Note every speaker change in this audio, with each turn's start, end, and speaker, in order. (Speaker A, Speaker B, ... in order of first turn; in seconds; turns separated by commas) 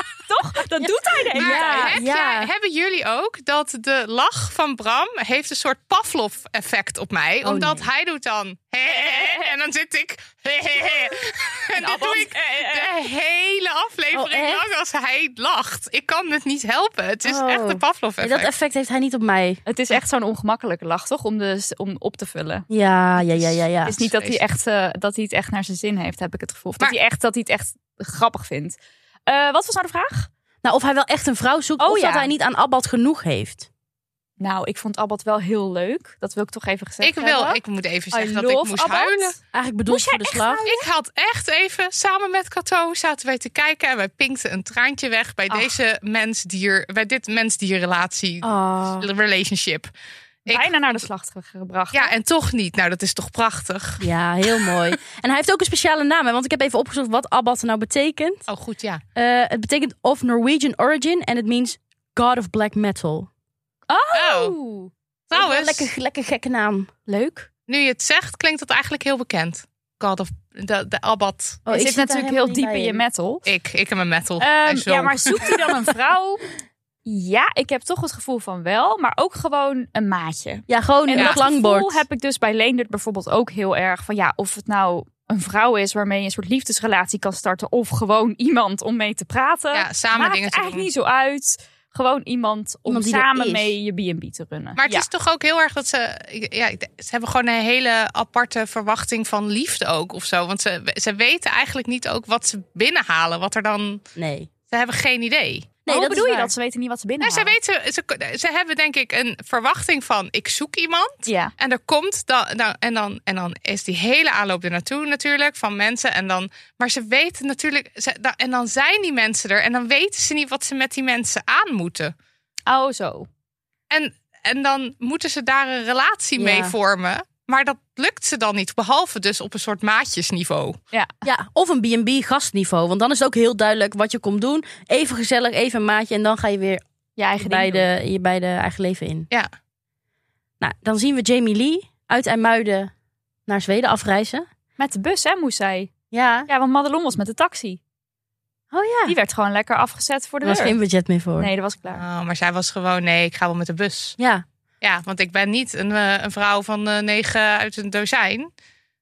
Speaker A: 0.3-2.0, Speaker B: 0.8-2.5, Speaker C: 1.3-18.5, Speaker B: 7.4-7.9, Speaker A: 8.8-9.5, Speaker A: 11.7-12.9, Speaker B: 14.1-14.6, Speaker B: 17.2-19.6, Speaker A: 19.7-22.7, Speaker B: 22.7-23.9, Speaker C: 23.2-24.4, Speaker A: 23.8-30.3, Speaker B: 30.6-33.7, Speaker A: 31.8-32.3, Speaker A: 34.4-37.6, Speaker C: 37.0-39.4, Speaker A: 38.1-40.9, Speaker B: 39.5-40.6, Speaker C: 40.7-49.9, Speaker A: 45.5-45.7, Speaker B: 48.4-49.1, Speaker C: 50.5-51.0, Speaker A: 50.5-52.1, Speaker C: 51.9-54.1, Speaker B: 54.0-58.5, Speaker C: 58.5-59.0, Speaker B: 59.1-63.3, Speaker A: 63.9-64.9, Speaker C: 64.1-64.5, Speaker C: 65.3-65.9, Speaker B: 65.3-66.9, Speaker A: 67.1-67.5, Speaker C: 67.7-71.6, Speaker B: 71.7-73.0, Speaker A: 71.7-73.5, Speaker C: 73.5-75.7, Speaker A: 74.4-76.4, Speaker A: 77.0-95.1, Speaker B: 80.7-82.0, Speaker C: 89.7-90.9, Speaker B: 92.8-93.7, Speaker C: 94.8-104.0, Speaker B: 104.2-104.5, Speaker C: 104.7-105.7, Speaker B: 105.8-106.5, Speaker A: 105.8-107.5, Speaker C: 107.2-122.1, Speaker A: 111.2-111.5, Speaker A: 122.7-123.3, Speaker C: 123.9-130.8, Speaker B: 126.4-126.7, Speaker A: 130.9-131.2, Speaker B: 131.2-136.8, Speaker A: 137.2-137.9, Speaker B: 137.4-139.3, Speaker B: 140.6-142.9, Speaker B: 143.5-144.4, Speaker A: 144.8-145.9, Speaker B: 146.1-146.5, Speaker A: 146.5-147.8, Speaker B: 148.7-149.1, Speaker A: 149.1-150.8, Speaker B: 150.4-151.5, Speaker A: 151.4-152.0, Speaker C: 151.9-154.2, Speaker B: 154.2-154.4, Speaker C: 154.8-158.5